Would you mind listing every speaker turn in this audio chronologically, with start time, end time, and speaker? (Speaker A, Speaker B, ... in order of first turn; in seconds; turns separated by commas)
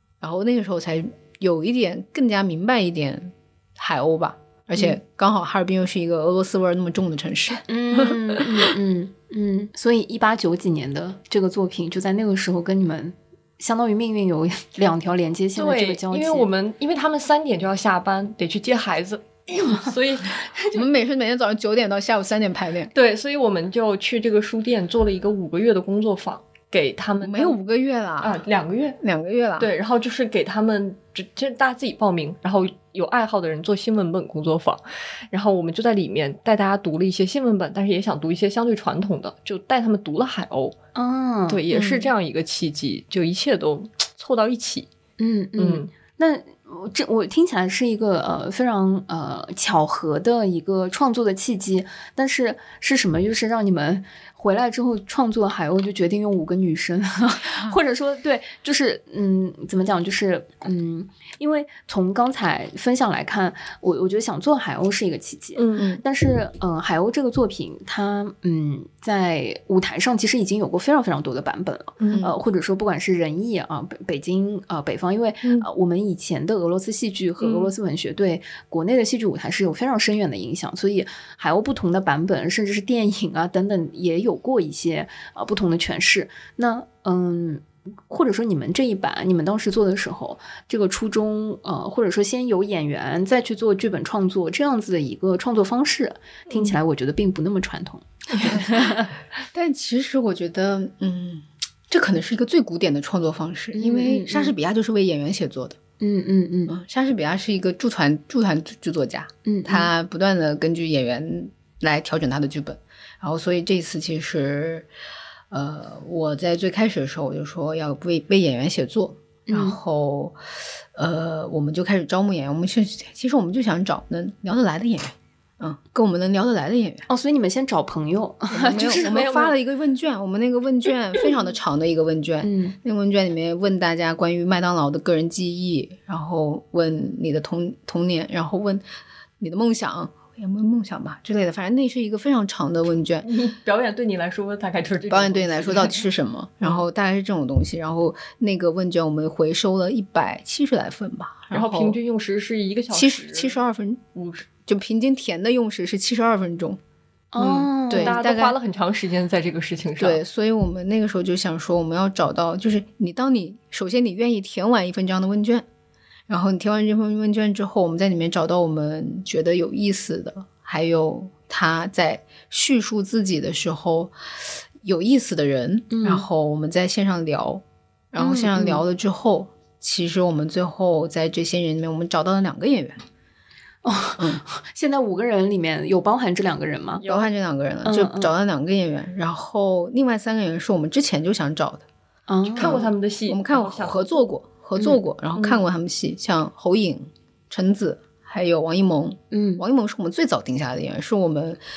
Speaker A: 0.2-8.2, Speaker B: 7.7-16.5, Speaker C: 15.6-20.8, Speaker A: 20.7-22.9, Speaker C: 22.9-27.6, Speaker A: 27.2-28.4, Speaker C: 28.2-29.0, Speaker A: 29.0-29.7, Speaker C: 29.6-40.8, Speaker B: 40.9-41.6, Speaker C: 41.5-44.9, Speaker B: 45.2-99.1, Speaker C: 45.6-45.9, Speaker C: 65.5-65.8, Speaker A: 65.8-66.0, Speaker C: 72.0-72.3, Speaker C: 77.4-77.7, Speaker A: 99.5-105.8, Speaker B: 103.7-104.5, Speaker B: 106.0-106.7, Speaker A: 106.7-114.9, Speaker B: 109.4-109.9, Speaker A: 115.5-120.4, Speaker B: 119.5-119.8, Speaker A: 120.9-127.0, Speaker B: 127.1-129.3, Speaker A: 128.5-138.8, Speaker C: 129.0-129.5, Speaker B: 132.4-132.8, Speaker A: 139.4-143.3, Speaker C: 143.2-146.0, Speaker A: 145.1-152.0, Speaker C: 151.5-153.5, Speaker A: 152.9-154.0, Speaker C: 154.1-154.4, Speaker A: 154.7-156.8, Speaker B: 157.3-158.2, Speaker A: 157.4-158.5, Speaker C: 157.9-160.2, Speaker A: 160.0-165.7, Speaker A: 166.3-174.1, Speaker A: 174.8-183.0, Speaker B: 175.9-176.2, Speaker B: 178.2-178.8, Speaker B: 183.8-187.0, Speaker C: 187.0-187.3, Speaker A: 187.0-191.8, Speaker B: 187.8-188.3, Speaker B: 192.3-192.8, Speaker C: 192.5-194.2, Speaker A: 192.6-201.6, Speaker B: 199.3-199.6